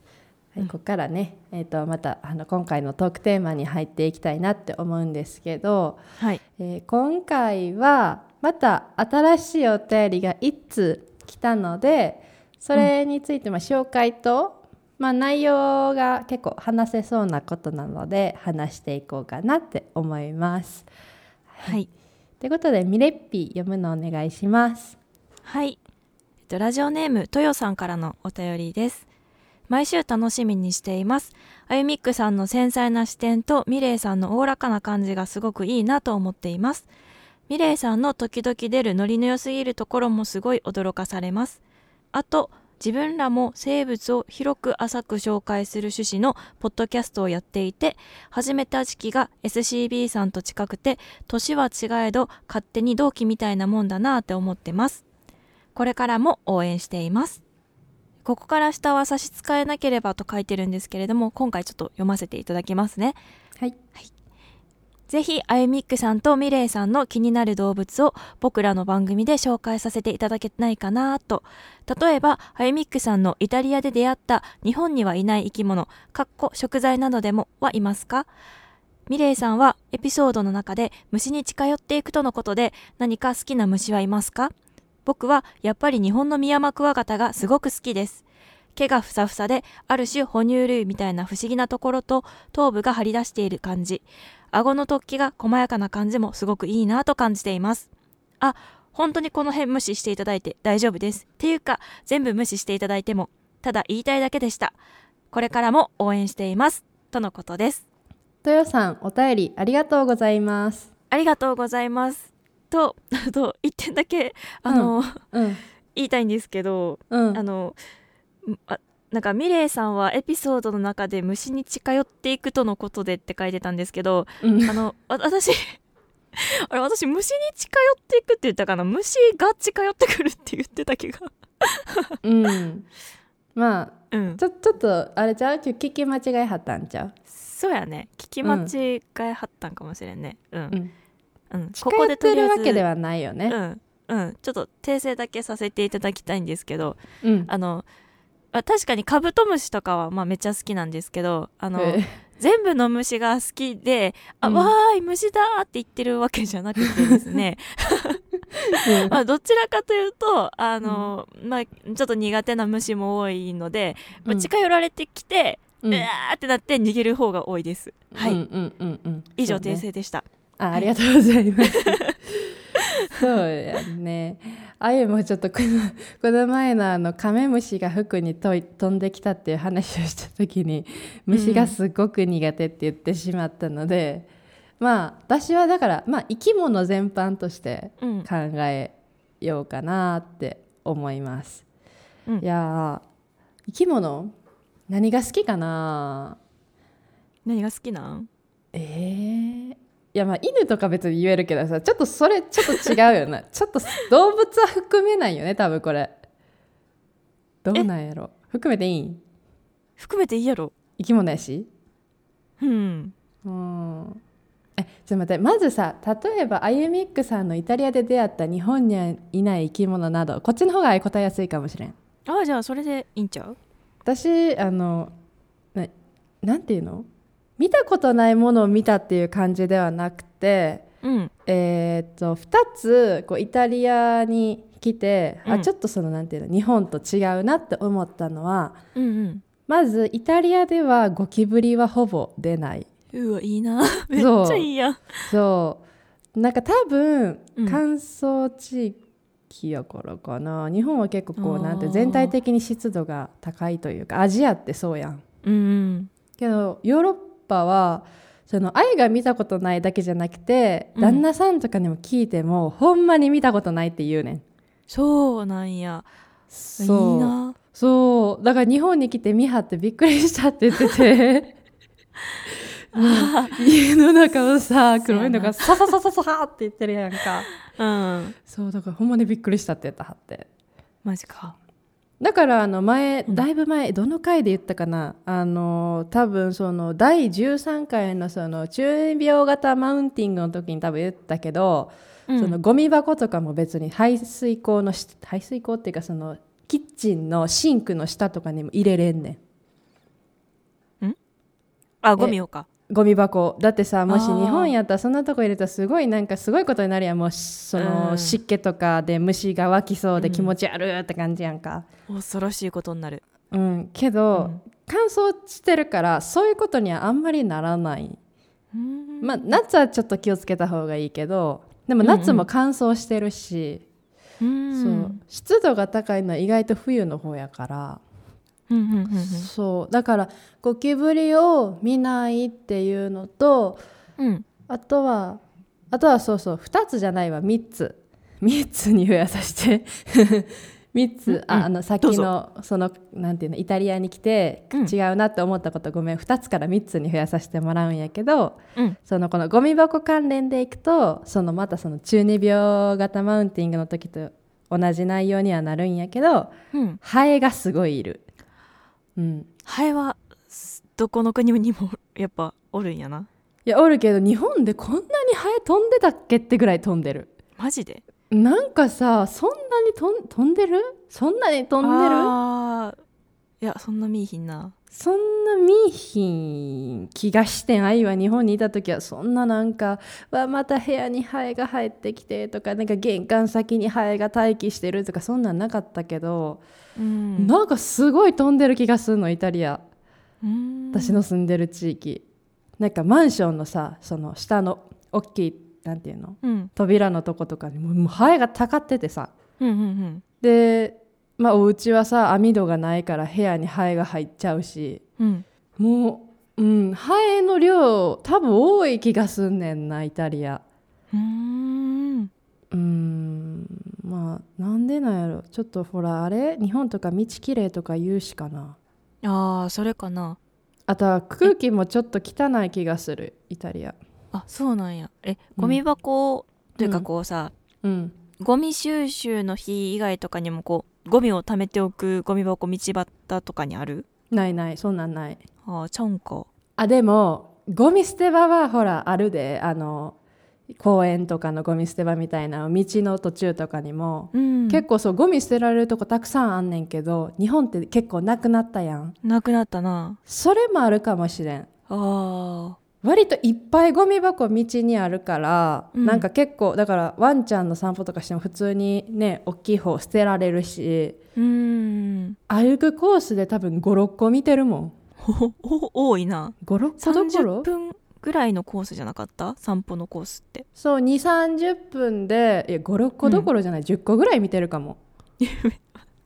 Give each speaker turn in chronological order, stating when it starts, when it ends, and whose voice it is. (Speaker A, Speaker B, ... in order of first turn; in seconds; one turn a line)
Speaker A: 0.5-6.0
Speaker A: 6.6-20.9
Speaker A: 21.5-21.8
Speaker A: 22.4-25.0
Speaker B: 25.4-25.8
Speaker B: 26.5-29.1
Speaker B: 29.7-36.9
Speaker B: 37.5-41.6
Speaker B: 42.1-55.0
Speaker B: 55.7-57.4
Speaker B: 58.2-63.2
Speaker B: 65.1-78.3
Speaker B: 79.1-84.5
Speaker B: 85.0-88.2
Speaker B: 88.7-97.9
Speaker B: 98.4-104.8
Speaker B: 105.3-107.8
Speaker A: 108.4-110.9
Speaker B: 111.1-115.2
Speaker A: 114.7-115.6
Speaker B: 115.9-117.8
Speaker A: 117.1-117.4
Speaker B: 118.4-125.8
Speaker A: 124.4-124.8
Speaker B: 126.3-132.2
Speaker A: 132.2-132.9
Speaker A: 133.6-137.1
Speaker B: 134.1-134.4
Speaker B: 137.3-140.8
Speaker A: 138.4-138.7
Speaker B: 141.5-142.8
Speaker A: 141.8-143.6
Speaker B: 143.5-147.8
Speaker A: 147.2-147.5
Speaker B: 148.5-158.2
Speaker A: 151.8-152.2
Speaker A: 154.4-154.7
Speaker A: 156.8-157.1
Speaker A: 158.6-159.2
Speaker B: 158.8-168.4
Speaker A: 160.8-161.1
Speaker A: 165.8-166.1
Speaker A: 168.1-169.8
Speaker B: 169.4-170.2
Speaker A: 170.6-172.4
Speaker B: 171.7-172.1
Speaker A: 173.0-184.3
Speaker B: 181.3-181.7
Speaker A: 184.8-191.6
Speaker B: 188.0-188.3
Speaker A: 192.4-193.0
Speaker A: 193.7-194.3
Speaker A: 194.9-196.4
Speaker B: 197.4-198.3
Speaker A: 198.7-206.1
Speaker B: 202.6-202.9
Speaker A: 207.6-209.2
Speaker B: 210.0-210.7
Speaker A: 211.0-211.7
Speaker B: 212.6-213.1
Speaker A: 213.4-214.2
Speaker A: 214.8-221.9
Speaker B: 222.2-223.6
Speaker A: 224.0-225.1
Speaker A: 226.4-227.1
Speaker A: 227.6-230.8
Speaker B: 231.0-231.3
Speaker A: 231.4-238.8
Speaker B: 235.4-235.7
Speaker B: 238.9-239.4
Speaker A: 239.7-242.9
Speaker B: 243.1-245.2
Speaker A: 244.1-244.7
Speaker A: 245.2-245.8
Speaker A: 246.3-249.0
Speaker B: 247.6-247.8
Speaker A: 249.5-255.2
Speaker B: 251.4-252.3
Speaker B: 255.4-256.1
Speaker A: 256.4-264.4
Speaker B: 261.0-261.2
Speaker B: 264.9-266.1
Speaker A: 266.5-271.6
Speaker B: 266.8-267.6
Speaker A: 272.9-277.5
Speaker B: 272.9-273.6
Speaker B: 275.1-275.7
Speaker B: 277.6-278.3
Speaker A: 278.4-280.5
Speaker B: 281.0-281.5
Speaker A: 282.2-299.4
Speaker B: 292.3-292.6
Speaker B: 302.0-302.7
Speaker A: 302.9-311.9
Speaker B: 304.1-304.7
Speaker B: 307.8-308.4
Speaker B: 310.2-310.5
Speaker B: 312.1-313.2
Speaker A: 313.5-318.2
Speaker B: 318.7-319.6
Speaker A: 319.2-323.8
Speaker B: 322.0-322.4
Speaker B: 324.4-325.2
Speaker A: 324.7-328.0
Speaker B: 328.7-329.5
Speaker A: 329.1-333.8
Speaker B: 334.2-334.4
Speaker A: 334.7-335.4
Speaker A: 335.9-358.2
Speaker B: 341.3-342.3
Speaker B: 356.7-357.0
Speaker A: 359.2-359.5
Speaker B: 359.6-363.3
Speaker A: 363.6-367.3
Speaker B: 367.6-368.0
Speaker A: 368.3-372.3
Speaker B: 371.8-373.0
Speaker B: 373.6-374.7
Speaker A: 374.9-386.6
Speaker B: 386.9-387.5
Speaker A: 387.4-389.8
Speaker B: 390.4-391.2
Speaker A: 390.9-392.2
Speaker A: 392.8-399.3
Speaker B: 396.4-396.7
Speaker B: 399.6-400.2
Speaker A: 400.4-405.0
Speaker B: 405.2-405.4
Speaker A: 405.8-410.6
Speaker B: 411.1-412.3
Speaker A: 412.7-418.8
Speaker B: 419.2-420.4
Speaker A: 420.9-424.0
Speaker B: 424.3-427.5
Speaker A: 426.8-427.1
Speaker A: 427.8-428.1
Speaker B: 428.4-434.1
Speaker A: 434.3-435.4
Speaker B: 435.6-436.5
Speaker A: 436.8-440.1
Speaker A: 440.7-449.1
Speaker B: 444.3-444.8
Speaker B: 449.2-450.2
Speaker A: 450.2-451.7
Speaker B: 451.9-452.8
Speaker A: 453.0-461.2
Speaker B: 455.9-456.3
Speaker B: 461.4-462.4
Speaker A: 462.5-464.9
Speaker B: 465.2-470.6
Speaker A: 466.6-467.7
Speaker A: 470.8-475.0
Speaker B: 473.2-473.5
Speaker B: 475.4-475.9